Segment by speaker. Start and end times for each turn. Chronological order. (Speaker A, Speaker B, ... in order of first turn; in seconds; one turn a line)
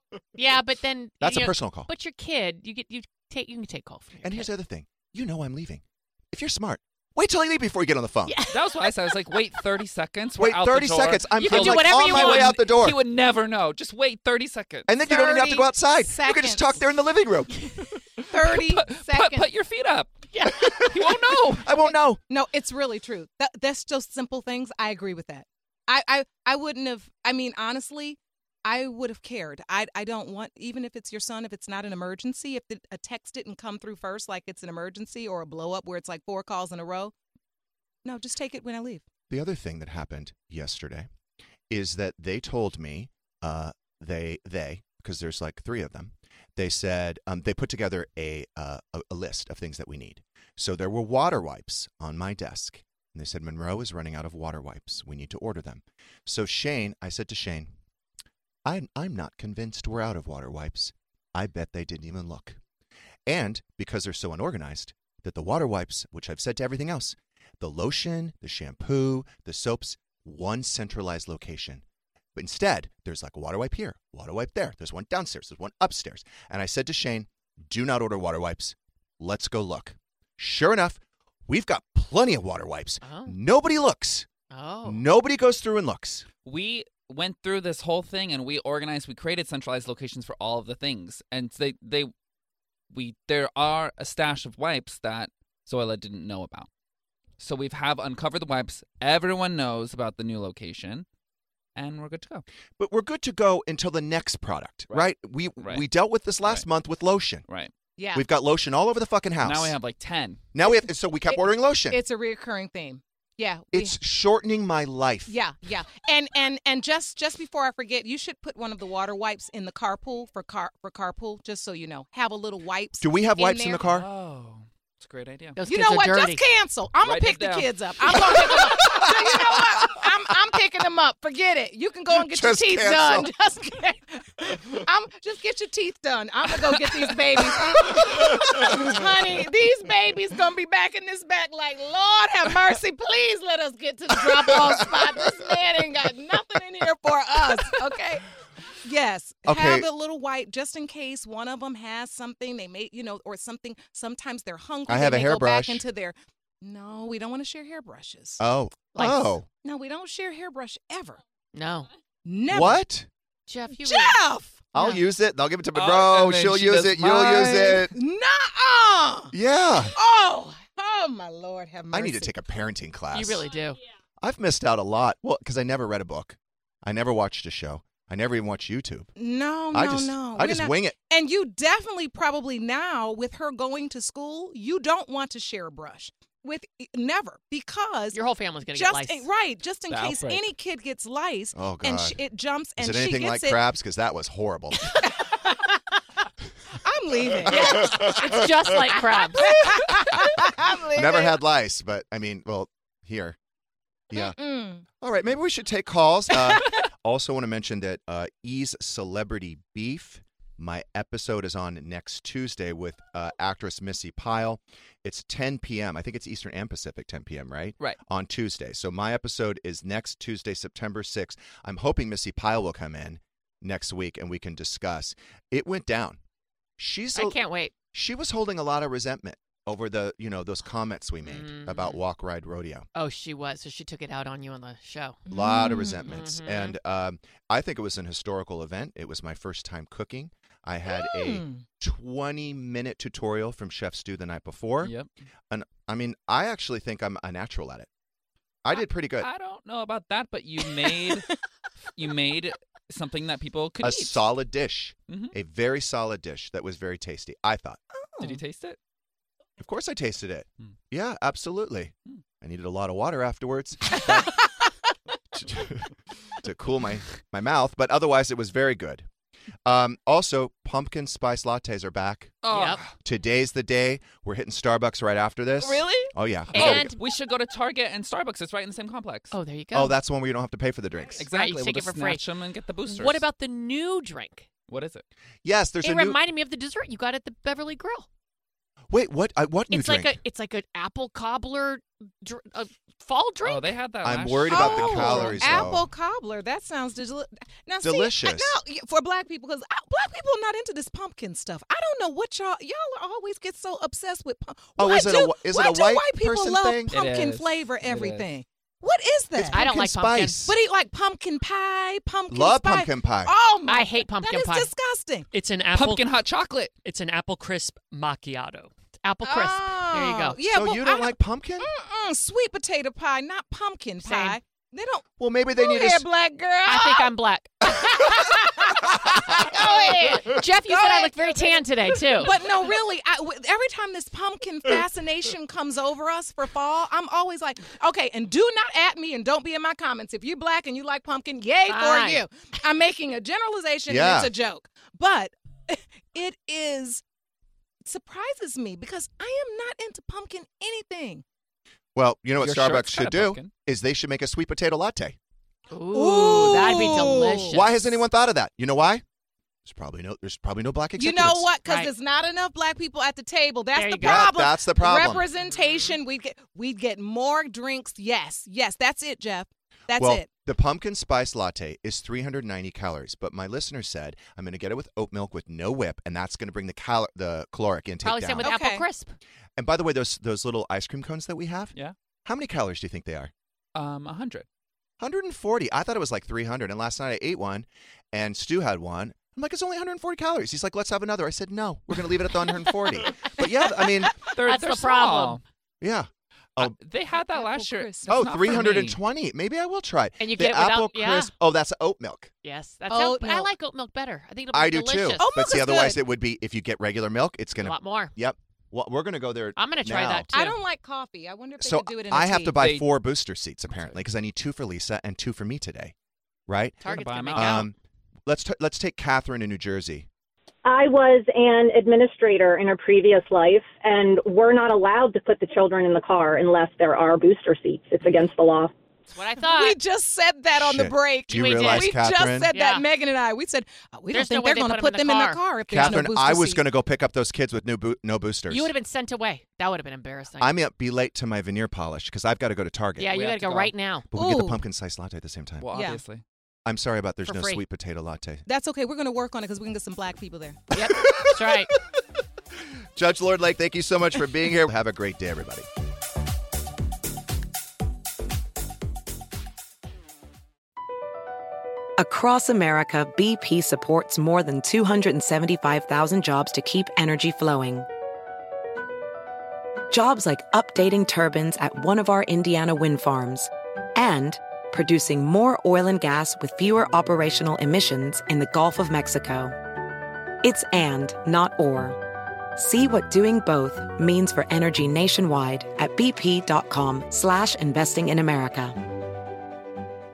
Speaker A: 0.3-4.5
Speaker B: 1.2-1.9
Speaker B: 4.2-8.4
Speaker A: 8.3-9.3
Speaker C: 8.5-14.9
Speaker B: 10.4-13.0
Speaker A: 11.3-12.8
Speaker B: 14.9-17.7
Speaker D: 15.0-16.8
Speaker D: 18.3-19.5
Speaker C: 18.6-21.7
Speaker A: 20.3-20.9
Speaker B: 21.5-22.2
Speaker D: 22.3-37.1
Speaker D: 38.0-39.0
Speaker B: 39.3-41.1
Speaker B: 41.7-57.7
Speaker B: 58.6-62.6
Speaker B: 63.3-71.8
Speaker B: 72.3-84.3
Speaker A: 83.0-83.4
Speaker A: 84.5-85.0
Speaker B: 84.8-86.3
Speaker C: 86.4-92.1
Speaker C: 92.9-96.7
Speaker C: 97.4-101.0
Speaker C: 101.8-102.4
Speaker B: 102.8-107.4
Speaker C: 104.9-105.8
Speaker D: 108.0-108.3
Speaker B: 108.1-109.8
Speaker C: 109.4-110.4
Speaker B: 110.5-112.0
Speaker D: 110.6-114.0
Speaker B: 113.7-115.3
Speaker D: 115.3-123.8
Speaker B: 123.0-124.1
Speaker C: 123.8-125.6
Speaker A: 125.5-126.5
Speaker D: 125.6-148.3
Speaker C: 127.0-127.7
Speaker B: 128.3-129.9
Speaker B: 132.1-133.3
Speaker B: 136.7-138.9
Speaker B: 144.3-145.1
Speaker D: 148.8-158.4
Speaker B: 149.4-149.9
Speaker B: 154.9-155.8
Speaker B: 158.4-159.4
Speaker A: 158.9-159.3
Speaker D: 159.6-161.2
Speaker A: 161.5-161.9
Speaker D: 162.2-162.8
Speaker B: 162.5-163.1
Speaker A: 163.5-164.2
Speaker D: 163.7-164.6
Speaker A: 164.7-165.0
Speaker B: 164.7-167.9
Speaker C: 165.7-167.8
Speaker D: 167.9-169.3
Speaker B: 169.3-169.9
Speaker D: 169.9-172.3
Speaker B: 171.9-173.5
Speaker A: 173.1-173.8
Speaker B: 174.2-179.1
Speaker D: 179.2-188.2
Speaker B: 179.7-180.9
Speaker A: 188.1-189.3
Speaker D: 188.7-193.6
Speaker C: 189.9-190.4
Speaker B: 191.6-192.2
Speaker B: 192.8-195.1
Speaker D: 195.0-195.7
Speaker D: 196.7-201.4
Speaker B: 197.4-198.3
Speaker A: 197.5-199.9
Speaker B: 200.9-203.4
Speaker B: 204.1-204.4
Speaker D: 204.1-204.8
Speaker B: 205.0-226.2
Speaker B: 226.8-227.4
Speaker A: 227.1-227.7
Speaker B: 227.9-232.9
Speaker A: 231.2-232.0
Speaker A: 232.9-236.8
Speaker D: 235.3-236.1
Speaker B: 235.3-244.9
Speaker D: 240.9-241.6
Speaker C: 244.8-245.1
Speaker B: 245.5-247.9
Speaker B: 248.6-249.3
Speaker C: 249.2-251.3
Speaker C: 251.9-254.2
Speaker B: 253.8-257.8
Speaker C: 255.1-255.3
Speaker C: 258.2-258.8
Speaker B: 259.6-264.3
Speaker D: 264.1-264.3
Speaker B: 265.4-265.9
Speaker B: 266.4-269.1
Speaker B: 269.6-272.4
Speaker C: 272.4-272.9
Speaker A: 272.5-272.8
Speaker B: 273.0-276.9
Speaker C: 275.6-279.4
Speaker A: 276.5-277.0
Speaker A: 279.3-280.0
Speaker B: 279.7-281.3
Speaker C: 281.2-283.3
Speaker A: 281.2-282.3
Speaker A: 282.8-284.5
Speaker C: 284.7-285.0
Speaker B: 285.4-286.2
Speaker A: 285.8-288.1
Speaker B: 288.9-290.2
Speaker A: 289.7-293.8
Speaker C: 293.4-295.7
Speaker B: 294.0-295.9
Speaker D: 294.5-309.6
Speaker A: 294.7-295.4
Speaker B: 297.8-298.6
Speaker B: 304.8-306.9
Speaker C: 306.9-308.2
Speaker B: 309.3-310.5
Speaker A: 309.5-310.5
Speaker D: 310.4-315.3
Speaker B: 312.3-313.3
Speaker A: 313.6-314.7
Speaker E: 315.3-316.0
Speaker C: 315.7-316.7
Speaker E: 316.8-318.7
Speaker A: 319.0-320.4
Speaker D: 319.2-327.1
Speaker B: 320.5-321.7
Speaker A: 324.0-324.4
Speaker B: 325.2-326.1
Speaker A: 326.6-332.5
Speaker D: 327.6-331.6
Speaker D: 332.2-347.0
Speaker A: 341.7-342.2
Speaker B: 343.9-344.3
Speaker D: 347.9-351.2
Speaker B: 351.9-355.2
Speaker C: 352.4-353.5
Speaker A: 355.7-358.0
Speaker D: 355.9-357.5
Speaker B: 357.5-359.0
Speaker B: 359.6-361.5
Speaker D: 361.0-370.3
Speaker A: 361.6-361.9
Speaker A: 363.7-364.4
Speaker B: 364.0-365.3
Speaker A: 364.9-366.0
Speaker B: 369.9-378.5
Speaker A: 378.0-379.1
Speaker D: 378.4-378.9
Speaker B: 379.6-383.3
Speaker C: 383.7-384.4
Speaker B: 385.0-394.1
Speaker C: 394.3-395.4
Speaker A: 394.4-395.4
Speaker B: 395.8-396.8
Speaker C: 396.6-399.0
Speaker D: 397.1-398.8
Speaker B: 398.1-402.3
Speaker A: 400.2-401.3
Speaker A: 402.4-405.4
Speaker D: 402.9-403.5
Speaker B: 404.5-410.3
Speaker D: 405.2-406.0
Speaker A: 407.6-408.1
Speaker A: 409.6-410.6
Speaker D: 410.3-412.6
Speaker B: 411.6-415.9
Speaker C: 412.6-412.9
Speaker C: 413.7-414.0
Speaker B: 416.5-416.8
Speaker A: 416.8-417.7
Speaker C: 416.8-417.7
Speaker B: 417.3-417.7
Speaker B: 418.3-420.1
Speaker F: 420.6-428.7
Speaker A: 429.1-429.8
Speaker D: 429.4-436.6
Speaker B: 430.6-432.5
Speaker A: 431.3-432.9
Speaker A: 434.1-436.0
Speaker B: 435.7-438.7
Speaker A: 438.5-440.6
Speaker B: 440.4-443.1
Speaker A: 443.0-444.1
Speaker C: 443.1-443.7
Speaker B: 444.1-445.7
Speaker D: 444.1-444.6
Speaker C: 445.6-446.2
Speaker D: 445.7-446.0
Speaker B: 446.6-448.4
Speaker A: 447.2-447.6
Speaker D: 448.4-450.6
Speaker A: 450.7-451.7
Speaker B: 450.7-451.7
Speaker B: 452.9-455.7
Speaker G: 462.0-467.9
Speaker G: 469.9-479.6
Speaker G: 480.4-482.0
Speaker G: 482.6-488.8